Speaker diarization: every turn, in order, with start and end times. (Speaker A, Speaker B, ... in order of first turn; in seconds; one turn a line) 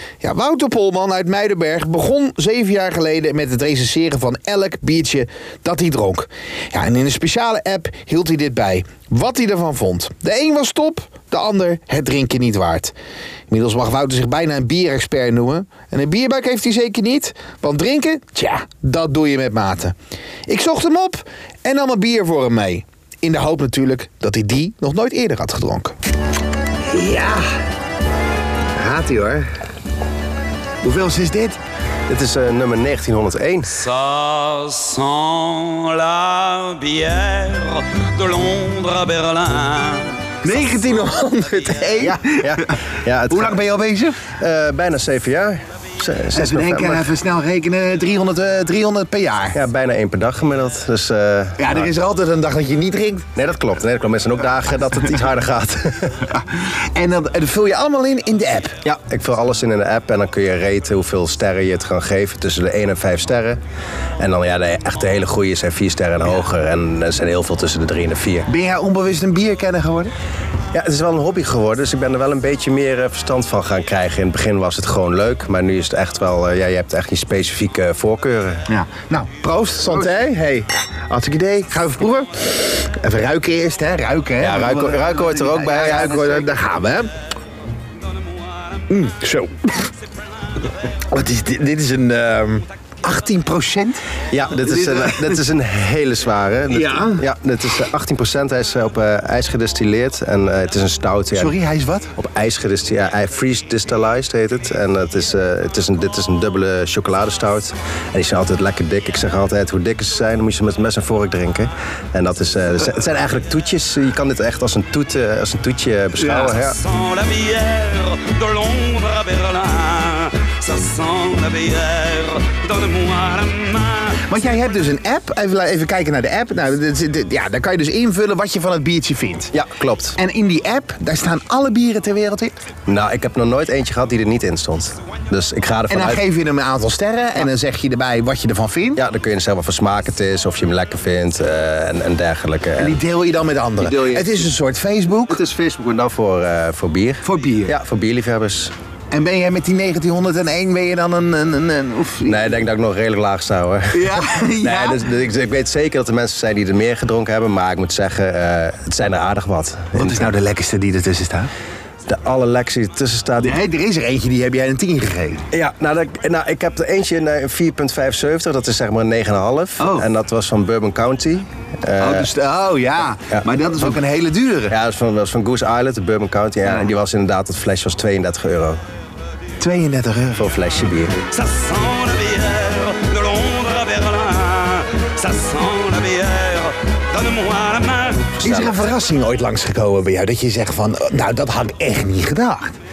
Speaker A: 0.2-12.9
Speaker A: 13.5-19.9
Speaker A: 20.5-25.9
Speaker A: 26.9-27.4
Speaker A: 28.8-29.5
Speaker A: 30.8-31.6
Speaker B: 32.1-33.9
Speaker C: 33.9-40.4
Speaker A: 40.4-42.8
Speaker B: 42.0-43.6
Speaker A: 43.3-44.3
Speaker B: 44.4-47.1
Speaker A: 46.3-49.6
Speaker B: 49.5-51.9
Speaker A: 51.6-53.2
Speaker B: 53.4-56.2
Speaker A: 56.3-58.8
Speaker B: 58.8-63.6
Speaker B: 64.2-68.5
Speaker A: 68.5-70.1
Speaker B: 70.7-78.7
Speaker A: 78.7-87.1
Speaker B: 84.4-86.5
Speaker A: 88.9-89.9
Speaker A: 91.1-94.0
Speaker B: 94.3-101.5
Speaker A: 94.7-95.3
Speaker A: 96.7-97.2
Speaker A: 101.4-102.1
Speaker B: 102.2-116.8
Speaker A: 116.2-116.6
Speaker C: 116.8-124.2
Speaker A: 124.2-129.5
Speaker B: 129.5-130.2
Speaker A: 130.2-132.5
Speaker B: 132.9-136.2
Speaker A: 135.9-139.0
Speaker B: 139.0-143.0
Speaker A: 142.8-145.4
Speaker B: 143.8-144.5
Speaker B: 145.3-148.7
Speaker A: 147.2-147.7
Speaker A: 149.1-152.5
Speaker B: 152.2-160.3
Speaker A: 153.9-155.0
Speaker A: 159.9-161.5
Speaker B: 162.1-163.6
Speaker A: 163.4-165.4
Speaker B: 165.5-172.3
Speaker A: 169.8-170.1
Speaker A: 172.0-174.8
Speaker B: 173.3-174.0
Speaker B: 174.7-178.8
Speaker A: 179.6-180.4
Speaker B: 180.4-181.3
Speaker C: 181.3-188.4
Speaker A: 188.4-192.7
Speaker B: 188.4-188.9